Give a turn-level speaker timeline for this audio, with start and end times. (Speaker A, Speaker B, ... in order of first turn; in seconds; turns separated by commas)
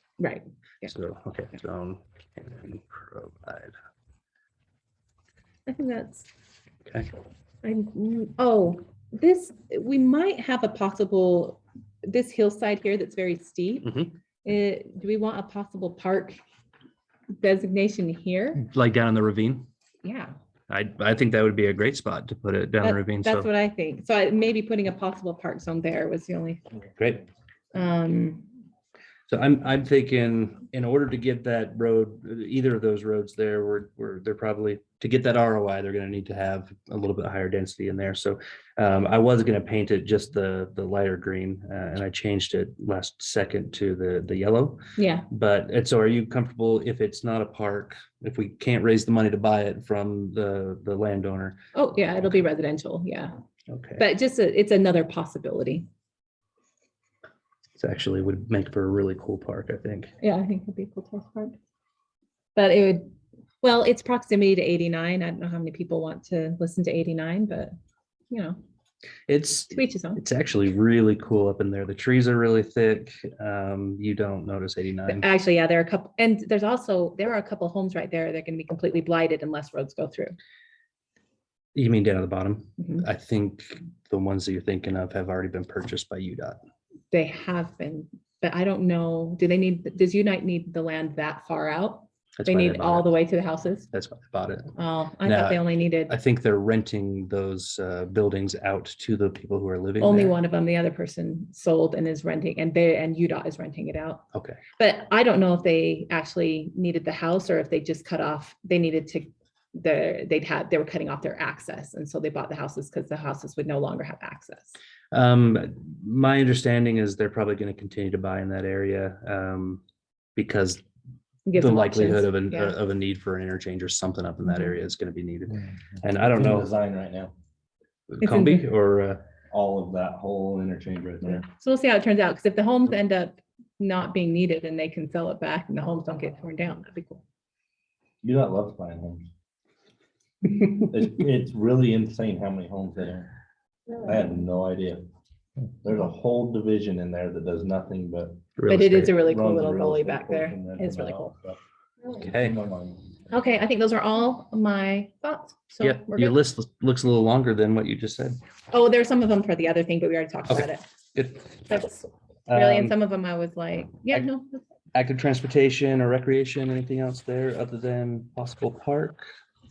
Speaker A: 0.2-0.9, Speaker B: 0.8-3.7, Speaker A: 5.7-6.3, Speaker A: 7.6-16.4, Speaker B: 13.8-14.1, Speaker A: 17.4-18.6, Speaker B: 18.6-19.7, Speaker A: 20.0-20.3, Speaker B: 20.7-23.5, Speaker A: 22.8-26.6, Speaker B: 27.0-27.2, Speaker A: 27.7-28.5, Speaker B: 29.3-51.6, Speaker A: 45.0-45.3, Speaker A: 51.7-53.3, Speaker B: 53.7-54.0, Speaker A: 54.0-55.9, Speaker B: 57.8-60.1, Speaker A: 60.2-61.5, Speaker A: 62.5-63.1, Speaker A: 63.6-67.7, Speaker A: 68.3-68.6, Speaker B: 69.3-75.3, Speaker A: 69.7-70.2, Speaker A: 75.1-80.3, Speaker B: 81.7-86.6, Speaker A: 82.8-83.0, Speaker A: 87.1-93.9, Speaker B: 92.4-93.1, Speaker B: 93.9-100.4, Speaker A: 94.8-96.2, Speaker A: 100.0-104.2, Speaker B: 104.3-104.6, Speaker A: 104.8-114.8, Speaker B: 115.1-119.8, Speaker B: 120.3-120.8, Speaker A: 121.5-122.8, Speaker B: 121.5-126.7, Speaker C: 126.2-127.3, Speaker B: 128.1-129.2, Speaker A: 128.2-128.6, Speaker C: 129.5-131.4, Speaker A: 131.5-137.2, Speaker C: 138.2-139.2, Speaker C: 140.7-143.3, Speaker C: 144.0-145.1, Speaker C: 145.8-148.4, Speaker B: 148.6-149.1, Speaker A: 148.7-151.3, Speaker C: 149.1-151.6, Speaker B: 152.2-152.6, Speaker C: 152.2-153.0, Speaker A: 153.3-156.4, Speaker B: 155.8-158.4, Speaker A: 158.7-160.8, Speaker B: 160.5-161.6, Speaker A: 161.6-164.6, Speaker B: 162.5-162.9, Speaker B: 164.9-169.2